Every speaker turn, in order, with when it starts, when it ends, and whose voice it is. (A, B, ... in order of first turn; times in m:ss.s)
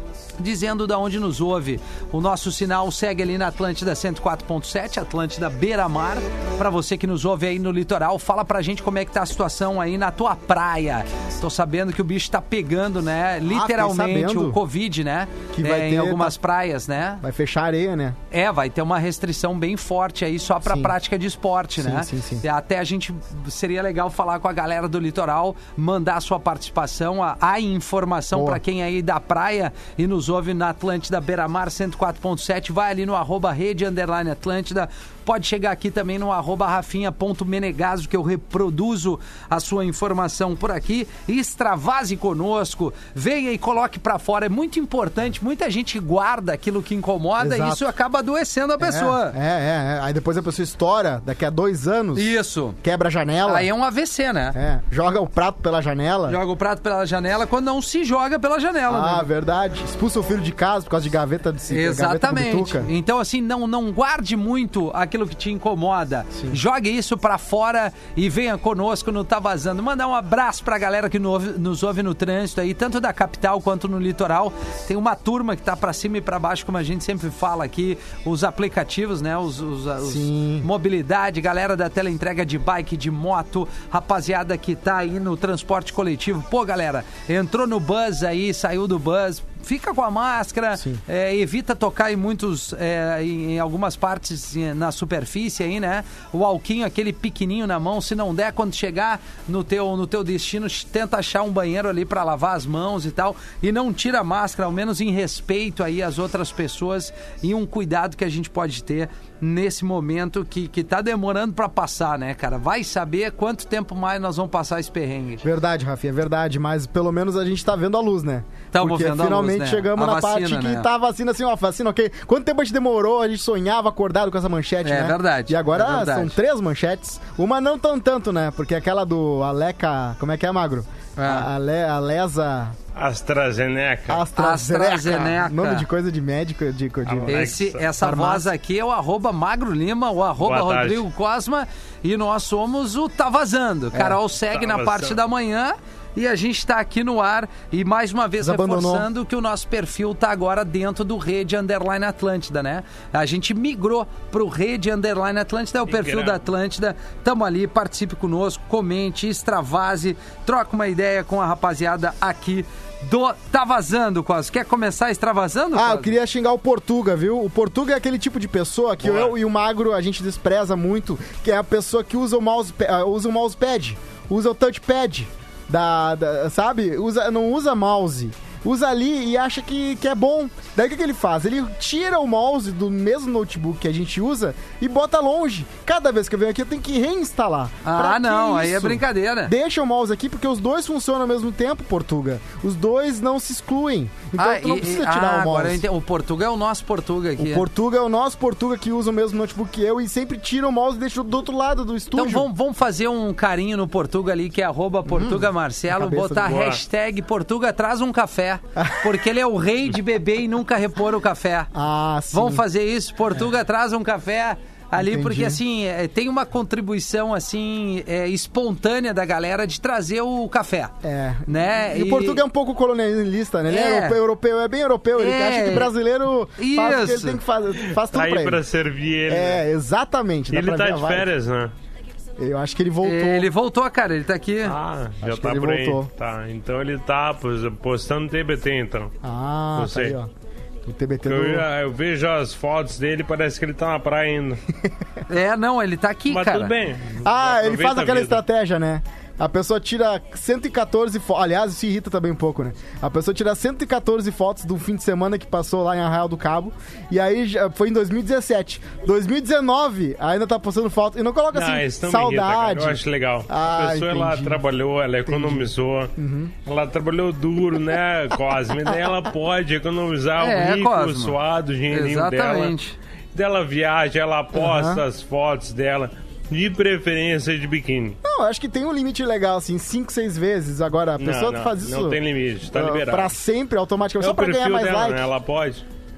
0:00.4-0:17.2 A
0:13.5-0:14.6 B
0:15.5-0:16.4 B
0:17.2-0:18.2 B
0:18.3-0:49.4 A
0:20.6-0:20.9 B
0:21.8-0:22.4 B
0:28.3-0:28.6 B
0:47.4-0:47.8 B
0:48.8-0:53.7 B
0:52.2-0:52.8 A
0:53.4-0:54.6 A
0:54.5-0:56.4 B
0:56.3-0:59.3 A
0:58.9-1:02.9 B
1:01.7-1:55.4 A
1:20.0-1:20.7 B
1:55.4-2:12.8 B
1:58.7-2:00.9 A
2:04.8-2:06.4 A
2:11.2-2:11.5 A
2:12.9-2:14.2 C
2:14.1-2:18.4 B
2:14.4-2:15.8 A
2:17.1-2:17.8 C
2:17.2-2:46.1 A
2:20.4-2:21.0 C
2:24.5-2:25.2 C
2:28.4-2:29.1 B
2:35.9-2:36.4 C
2:45.7-3:15.8 B
2:49.0-2:49.4 C
3:07.8-3:09.5 A
3:14.3-3:17.7 A
3:17.4-3:22.5 B
3:22.1-3:31.7 A
3:25.1-3:26.6 B
3:26.4-3:26.8 C
3:28.8-3:29.1 B
3:31.7-3:32.6 B
3:32.3-3:40.9 A
3:35.0-3:35.6 B
3:41.0-3:48.6 B
3:41.4-3:42.4 A
3:43.7-3:44.2 A
3:45.2-3:45.9 A
3:46.6-3:47.4 A
3:47.8-3:49.6 C
3:49.3-3:51.3 B
3:50.5-3:51.7 C
3:52.4-3:53.5 B
3:53.0-3:54.8 A
3:54.6-3:59.1 C
3:55.2-3:56.1 B
3:59.2-4:00.3 B
3:59.8-4:00.2 C
4:00.8-4:01.6 B
4:01.2-4:04.6 C
4:05.3-4:06.7 A
4:06.3-4:08.4 C
4:07.2-4:24.6 B
4:21.5-4:26.1 C
4:25.2-4:26.5 B
4:26.6-4:32.8 C
4:30.4-4:31.4 A
4:31.9-4:33.0 A
4:33.3-4:38.2 C
4:34.6-4:35.0 B
4:38.2-4:42.2 B
4:41.2-4:43.3 C
4:42.7-4:45.2 B
4:44.2-4:45.8 C